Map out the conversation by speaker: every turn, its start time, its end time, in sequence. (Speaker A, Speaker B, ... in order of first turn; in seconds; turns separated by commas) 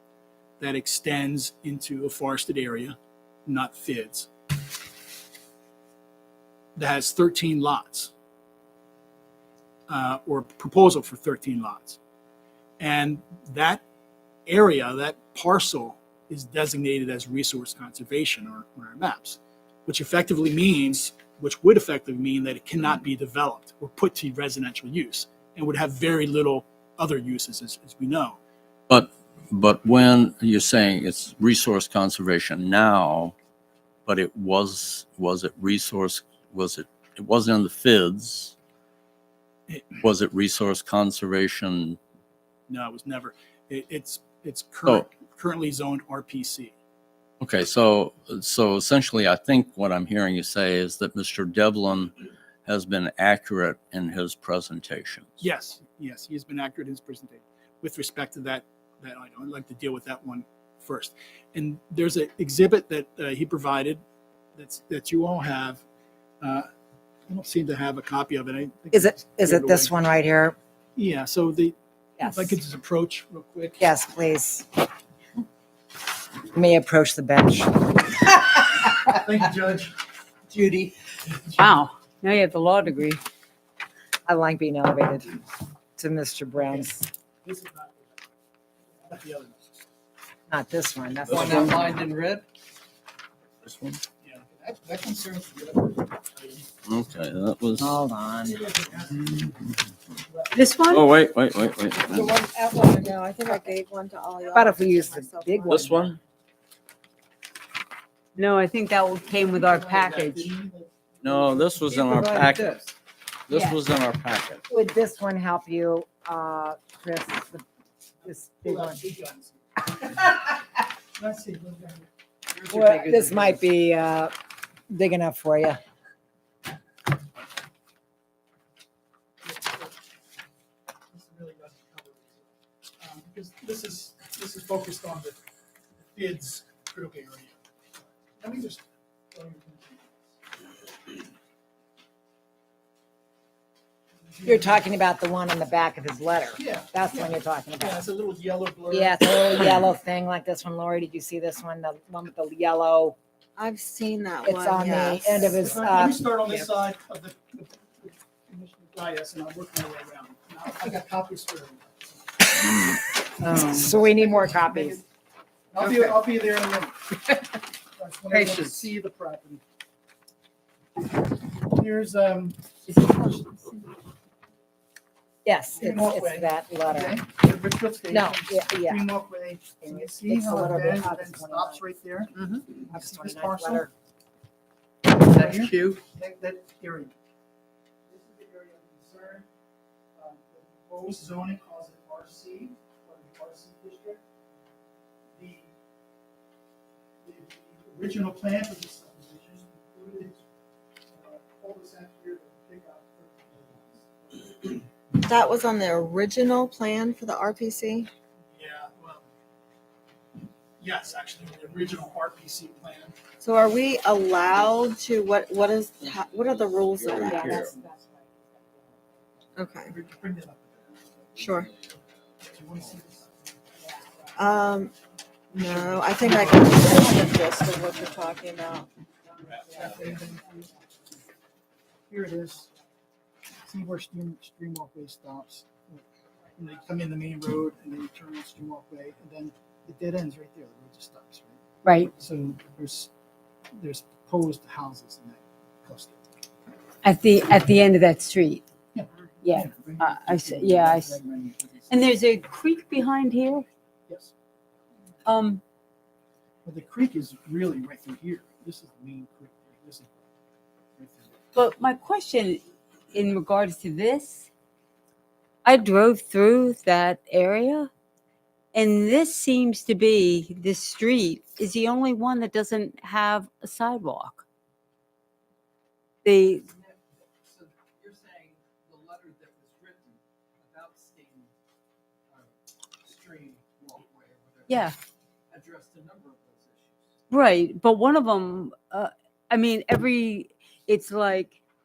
Speaker A: 0.6-4.3, Speaker A: 6.8-8.1, Speaker A: 9.9-12.0, Speaker A: 12.8-13.8, Speaker A: 14.5-28.4, Speaker B: 28.9-33.3, Speaker B: 34.0-38.5, Speaker A: 39.7-40.0, Speaker B: 40.0-42.0, Speaker A: 42.7-46.7, Speaker B: 47.4-55.4, Speaker A: 55.4-64.0, Speaker A: 64.5-65.8, Speaker A: 66.4-66.7, Speaker A: 67.3-69.9, Speaker C: 68.9-70.6, Speaker A: 71.0-73.8, Speaker C: 72.2-72.6, Speaker C: 73.8-74.7, Speaker C: 76.5-78.2, Speaker A: 79.0-80.0, Speaker A: 81.3-81.7, Speaker D: 81.5-83.2, Speaker C: 84.2-87.1, Speaker A: 86.5-88.2, Speaker A: 89.0-89.7, Speaker C: 90.5-92.0, Speaker E: 91.2-92.5, Speaker B: 93.6-94.0, Speaker A: 94.2-96.7, Speaker B: 96.8-98.0, Speaker C: 97.8-98.6, Speaker A: 98.4-99.5, Speaker A: 100.2-100.6, Speaker D: 100.5-101.0, Speaker B: 100.9-102.3, Speaker F: 102.0-106.0, Speaker C: 104.5-106.0, Speaker B: 105.7-106.2, Speaker D: 108.3-110.5, Speaker A: 109.3-111.8, Speaker B: 111.2-112.7, Speaker E: 112.1-112.9, Speaker B: 113.5-114.6, Speaker D: 113.5-113.8, Speaker C: 114.7-117.6, Speaker A: 118.2-120.4, Speaker C: 118.2-119.0, Speaker A: 121.2-122.1, Speaker E: 122.5-123.6, Speaker C: 122.7-124.3, Speaker C: 124.9-125.8, Speaker A: 129.4-130.0, Speaker A: 131.1-135.4, Speaker A: 136.0-137.6, Speaker A: 138.3-140.4, Speaker A: 144.2-144.8, Speaker C: 144.4-148.0, Speaker A: 146.6-149.8, Speaker C: 148.9-153.2, Speaker F: 153.6-155.4, Speaker C: 154.4-156.7, Speaker A: 155.4-165.0, Speaker C: 163.4-165.0, Speaker A: 165.7-167.0, Speaker C: 165.8-166.1, Speaker A: 167.9-169.6, Speaker A: 171.6-172.6, Speaker D: 172.9-173.9, Speaker C: 175.4-177.2, Speaker A: 175.7-183.9, Speaker C: 178.1-179.1, Speaker C: 179.8-181.8, Speaker C: 182.9-183.9, Speaker A: 185.2-187.1, Speaker E: 185.2-186.0, Speaker A: 188.1-189.5, Speaker A: 190.1-194.2, Speaker A: 195.3-195.7, Speaker A: 197.2-200.4, Speaker A: 201.1-204.8, Speaker F: 205.2-208.1, Speaker A: 208.5-209.3, Speaker A: 210.8-213.2, Speaker F: 213.4-217.7, Speaker B: 217.0-217.7, Speaker C: 217.1-219.0, Speaker F: 219.6-219.9, Speaker A: 219.8-220.9, Speaker F: 221.3-221.7, Speaker B: 221.5-222.0, Speaker A: 222.4-223.9, Speaker C: 223.8-224.4, Speaker F: 224.4-224.9, Speaker F: 225.5-228.9, Speaker A: 225.6-227.1, Speaker A: 229.4-230.6, Speaker C: 229.5-230.7, Speaker A: 232.1-232.7, Speaker A: 233.7-236.0, Speaker A: 236.6-241.6, Speaker D: 241.8-242.1, Speaker A: 242.1-243.1, Speaker A: 243.8-246.2, Speaker D: 247.0-248.6, Speaker A: 248.9-252.1, Speaker D: 249.4-251.2, Speaker D: 251.9-253.7, Speaker A: 254.1-254.3, Speaker D: 255.2-255.6, Speaker A: 256.6-260.2, Speaker A: 261.0-261.4, Speaker D: 261.5-262.6, Speaker D: 263.1-264.5, Speaker D: 265.6-267.9, Speaker D: 268.7-274.4, Speaker D: 276.2-276.6, Speaker E: 276.7-281.5, Speaker E: 282.3-284.9, Speaker D: 284.7-284.9, Speaker E: 285.5-287.1, Speaker D: 287.3-291.6